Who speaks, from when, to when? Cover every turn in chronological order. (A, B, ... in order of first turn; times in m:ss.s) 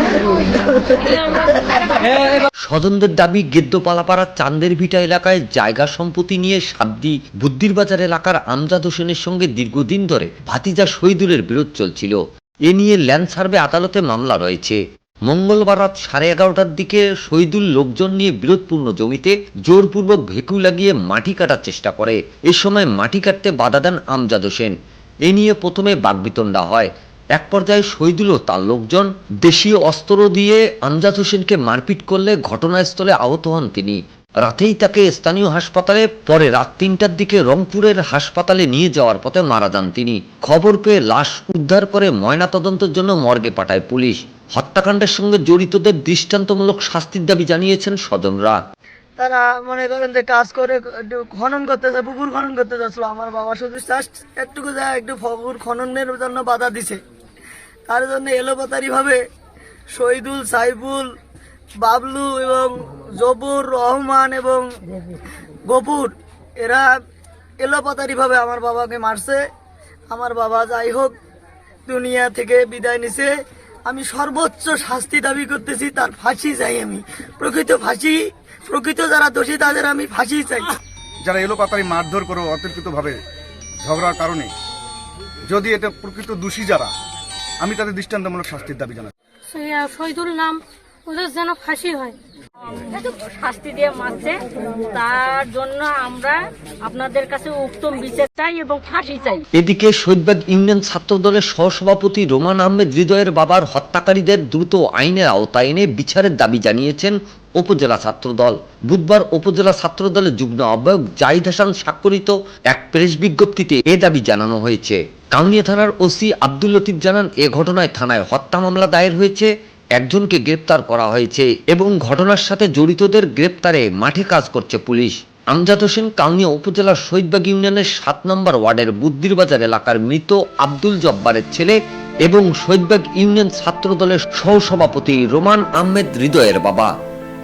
0:02.6-0:24.7 A
0:25.2-0:48.6 A
0:49.2-0:57.0 B
0:57.9-0:59.2 B
0:59.9-1:01.1 B
1:01.8-1:04.7 B
1:05.7-1:06.9 B
1:07.6-1:09.4 B
1:10.1-1:11.1 B
1:11.9-1:13.3 B
1:13.9-1:20.7 B
1:21.2-1:23.2 C
1:23.8-1:24.5 C
1:25.5-1:26.9 C
1:27.6-1:29.1 C
1:29.5-1:32.2 D
1:32.7-1:34.4 E
1:34.9-1:39.4 E
1:39.5-2:16.9 A